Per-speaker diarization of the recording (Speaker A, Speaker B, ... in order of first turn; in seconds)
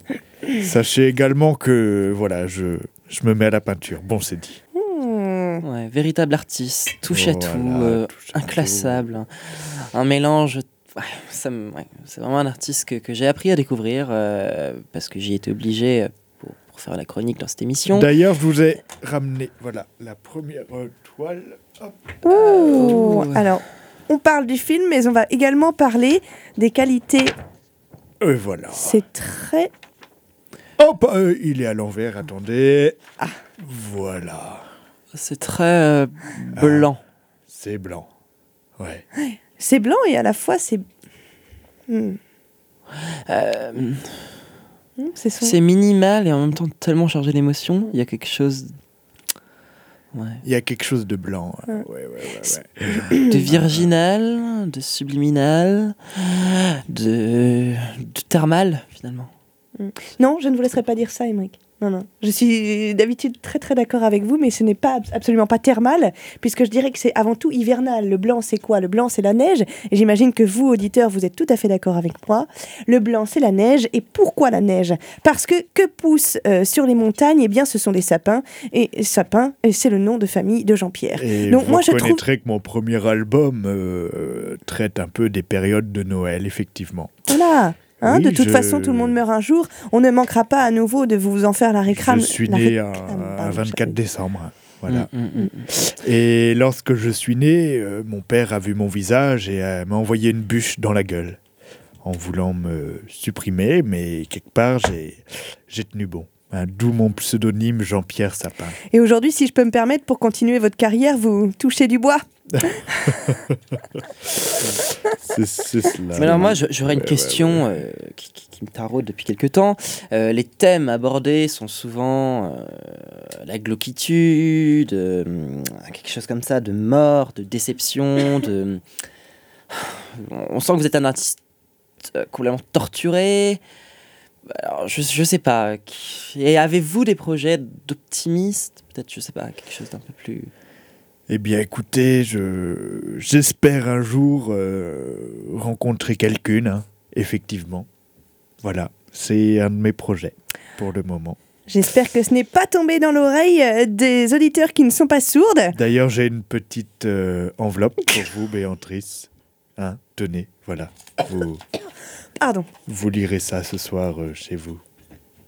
Speaker A: 0.6-4.6, 7.1-9.2, 17.9-22.1, 28.2-29.0, 30.8-33.0, 33.6-34.7, 36.5-36.9, 37.5-38.1, 38.8-39.0, 50.4-53.9, 81.2-87.2, 88.0-89.2, 91.9-95.1, 95.8-101.4, 102.0-108.8, 112.5-117.7, 141.3-147.9, 148.6-151.4, 155.7-161.6, 162.9-164.8
Speaker B: 4.8-5.6, 22.2-27.3, 28.8-29.7, 39.2-40.9, 41.9-42.2, 45.0-45.6, 53.1-53.3, 59.8-82.2, 87.3-94.0, 108.9-113.3, 151.7-155.8, 162.4-162.7
Speaker C: 5.6-18.1, 22.4-23.5, 35.1-37.0, 43.3-44.3, 45.4-48.8, 50.1-50.4, 53.3-59.3, 94.9-95.9, 116.2-128.8, 129.7-131.4, 132.0-133.6, 134.5-140.5